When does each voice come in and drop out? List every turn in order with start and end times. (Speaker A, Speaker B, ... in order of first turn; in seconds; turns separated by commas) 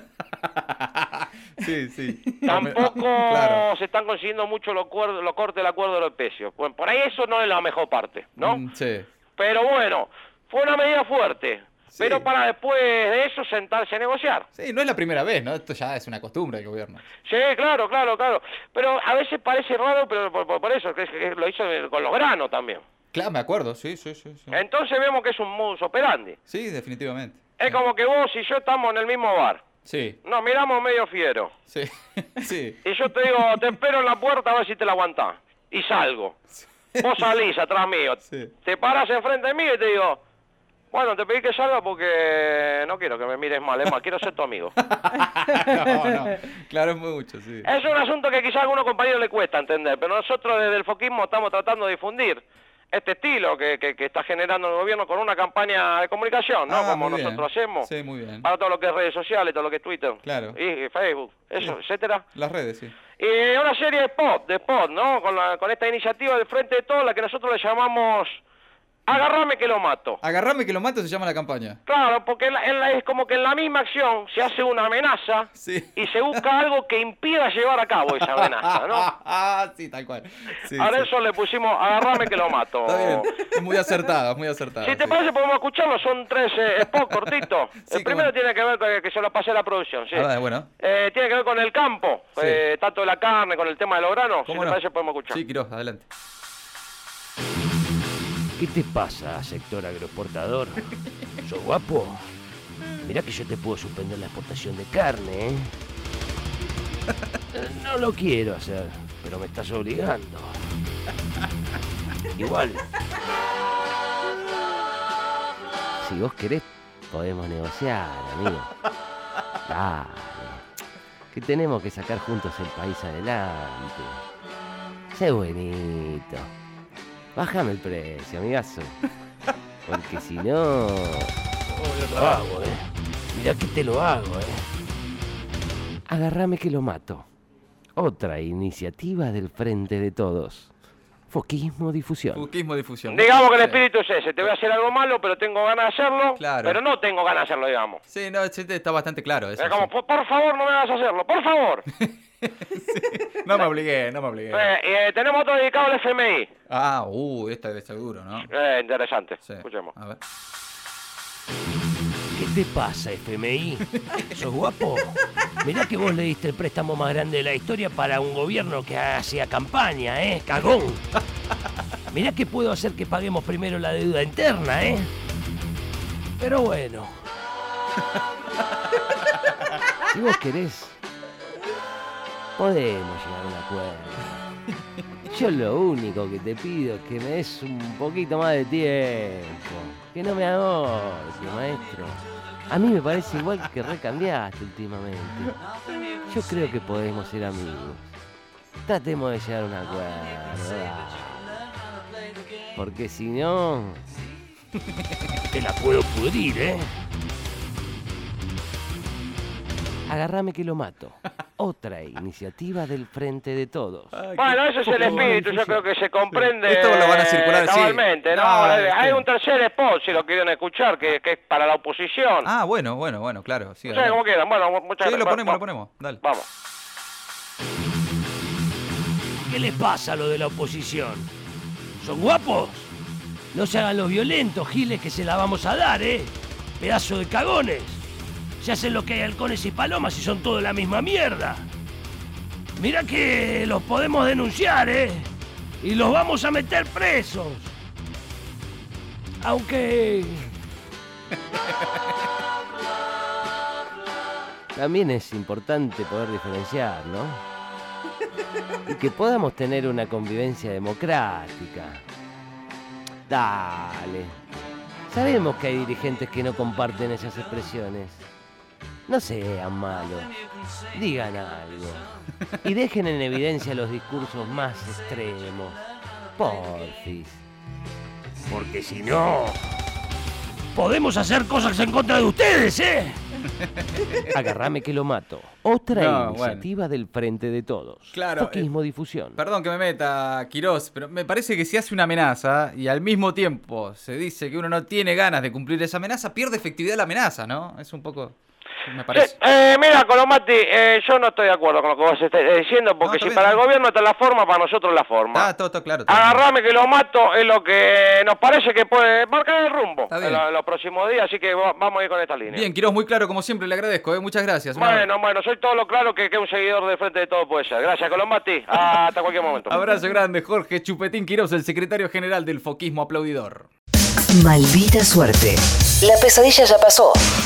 Speaker A: 0.4-3.7, Speaker B: 2.5-8.6, Speaker A: 8.4-9.1, Speaker B: 9.3-14.5, Speaker A: 11.9-12.3, Speaker A: 14.6-17.1, Speaker B: 17.2-22.8, Speaker A: 23.1-24.6, Speaker B: 24.5-26.4, Speaker A: 26.5-27.8, Speaker B: 27.6-29.6, Speaker A: 29.8-30.2, Speaker B: 30.2-31.5, Speaker A: 31.7-33.7, Speaker B: 32.8-36.4, Speaker A: 36.6-37.3, Speaker B: 37.0-40.2, Speaker A: 38.3-38.5, Speaker B: 40.9-44.8, Speaker A: 44.9-47.7, Speaker B: 47.6-57.9, Speaker A: 56.7-58.5, Speaker B: 58.4-62.2, Speaker A: 60.2-60.6, Speaker A: 62.3-62.9, Speaker B: 63.2-68.4, Speaker B: 69.1-70.2, Speaker A: 70.2-71.8, Speaker B: 71.8-79.1, Speaker A: 75.5-76.4, Speaker A: 78.2-81.1, Speaker B: 80.6-83.6, Speaker A: 82.0-85.2, Speaker B: 84.8-90.3, Speaker A: 86.8-88.3, Speaker A: 90.1-90.7, Speaker B: 90.8-95.4, Speaker A: 94.5-96.1, Speaker C: 98.6-100.9, Speaker C: 101.4-102.2, Speaker C: 103.0-105.7, Speaker C: 107.5-110.6, Speaker C: 112.4-112.9, Speaker C: 116.0-118.7, Speaker C: 119.7-120.6, Speaker C: 121.3-124.2, Speaker C: 125.1-126.5, Speaker C: 127.3-129.0, Speaker C: 129.9-131.3, Speaker A: 131.8-132.4, Speaker C: 132.1-134.7, Speaker C: 136.1-137.3, Speaker C: 137.9-140.7, Speaker C: 141.3-142.5, Speaker A: 142.3-143.8, Speaker B: 143.1-148.0, Speaker A: 146.4-146.8, Speaker A: 148.1-149.9, Speaker B: 149.6-151.8, Speaker A: 152.0-154.7, Speaker B: 154.5-156.5, Speaker A: 156.7-158.5, Speaker B: 158.5-159.9, Speaker A: 159.4-160.2, Speaker C: 162.3-171.0, Speaker C: 172.1-175.1, Speaker C: 176.4-177.2, Speaker C: 180.1-181.0, Speaker C: 182.6-184.4, Speaker C: 185.3-195.6, Speaker C: 196.3-198.1, Speaker C: 198.8-201.6, Speaker C: 202.7-204.1, Speaker C: 205.5-206.9, Speaker C: 210.1-214.2, Speaker A: 214.1-219.2, Speaker B: 214.3-222.5, Speaker C: 214.9-215.8, Speaker A: 222.4-224.2, Speaker B: 223.8-225.6, Speaker A: 225.0-226.2, Speaker B: 226.2-226.5, Speaker C: 229.5-231.3, Speaker C: 232.0-232.9, Speaker C: 233.5-238.0, Speaker C: 238.6-241.7, Speaker C: 242.8-245.3, Speaker C: 245.8-247.7, Speaker C: 249.4-250.5, Speaker C: 254.7-257.4, Speaker C: 258.9-262.0, Speaker C: 263.3-264.4, Speaker C: 265.1-268.3, Speaker C: 269.1-270.3, Speaker C: 270.9-272.1, Speaker C: 272.6-275.8, Speaker C: 276.4-277.4, Speaker C: 278.5-279.6, Speaker C: 280.7-283.2, Speaker A: 283.9-284.2, Speaker C: 284.2-289.4, Speaker A: 285.9-286.7, Speaker A: 288.1-288.7, Speaker A: 289.3-298.3, Speaker A: 298.9-299.4, Speaker B: 299.1-305.5, Speaker A: 303.0-303.6, Speaker A: 305.3-306.4, Speaker B: 306.1-312.7, Speaker A: 310.1-310.4, Speaker A: 312.5-315.1, Speaker B: 314.7-319.8, Speaker A: 319.7-323.7, Speaker D: 324.3-327.2